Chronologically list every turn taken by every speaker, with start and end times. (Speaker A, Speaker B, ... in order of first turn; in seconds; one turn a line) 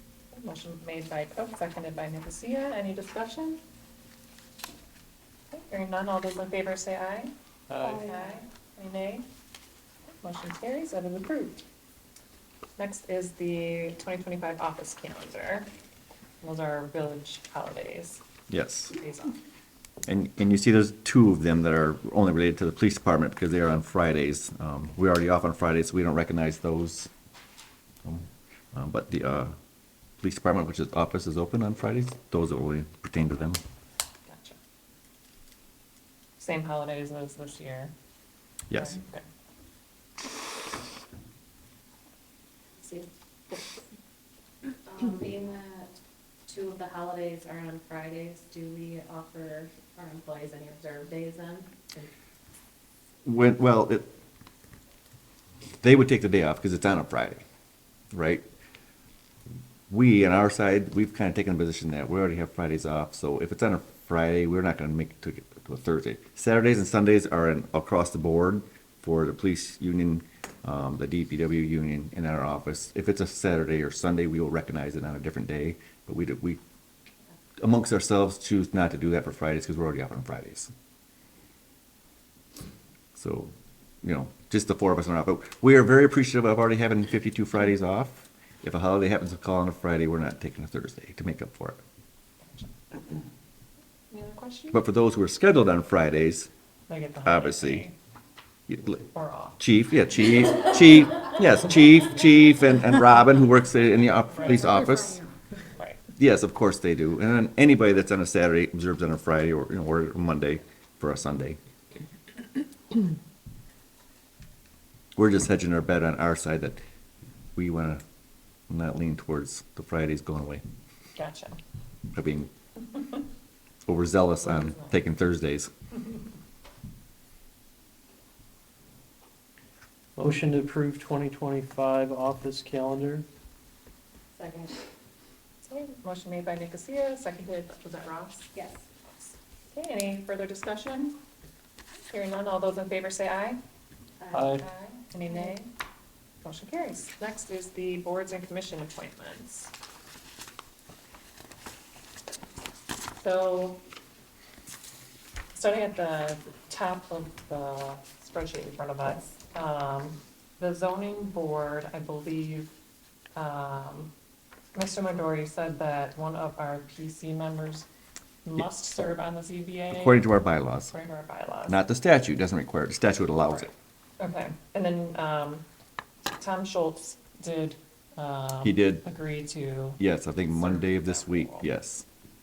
Speaker A: 0.3-3.6
Speaker A: 5.5-7.3
Speaker B: 7.7-8.1
Speaker A: 8.0-9.3
Speaker A: 10.2-11.6
Speaker A: 12.8-15.7
Speaker A: 16.4-18.2
Speaker C: 18.5-18.9
Speaker A: 18.9-19.4
Speaker C: 20.1-27.1
Speaker C: 28.0-29.5
Speaker C: 30.2-33.6
Speaker A: 34.3-34.6
Speaker A: 36.4-37.9
Speaker C: 38.7-39.0
Speaker A: 38.8-39.2
Speaker D: 44.9-52.1
Speaker C: 53.2-54.1
Speaker C: 55.8-57.4
Speaker C: 58.1-58.4
Speaker C: 59.9-76.6
Speaker C: 77.6-80.7
Speaker C: 83.2-91.8
Speaker A: 92.4-92.7
Speaker A: 94.1-94.8
Speaker C: 94.7-96.5
Speaker A: 96.9-97.9
Speaker C: 97.2-97.9
Speaker C: 98.7-99.0
Speaker A: 99.1-99.6
Speaker C: 99.6-105.2
Speaker C: 106.2-111.6
Speaker C: 115.2-116.8
Speaker C: 117.5-118.0
Speaker C: 118.7-120.6
Speaker A: 121.2-121.6
Speaker C: 122.1-122.5
Speaker C: 123.9-125.7
Speaker A: 124.6-124.9
Speaker B: 130.2-133.2
Speaker D: 134.4-134.8
Speaker A: 135.6-138.5
Speaker D: 138.5-138.8
Speaker A: 139.7-141.2
Speaker A: 142.1-143.6
Speaker D: 144.2-144.6
Speaker B: 144.3-144.6
Speaker A: 144.6-145.7
Speaker A: 146.4-149.7
Speaker A: 153.2-153.8
Speaker A: 155.5-162.7
Speaker A: 163.4-164.1
Speaker A: 164.8-167.9
Speaker A: 168.4-170.3
Speaker C: 169.9-170.9
Speaker A: 170.9-171.8
Speaker C: 171.7-173.7
Speaker A: 173.5-175.7
Speaker A: 176.3-181.7
Speaker C: 178.6-179.1
Speaker C: 180.0-182.1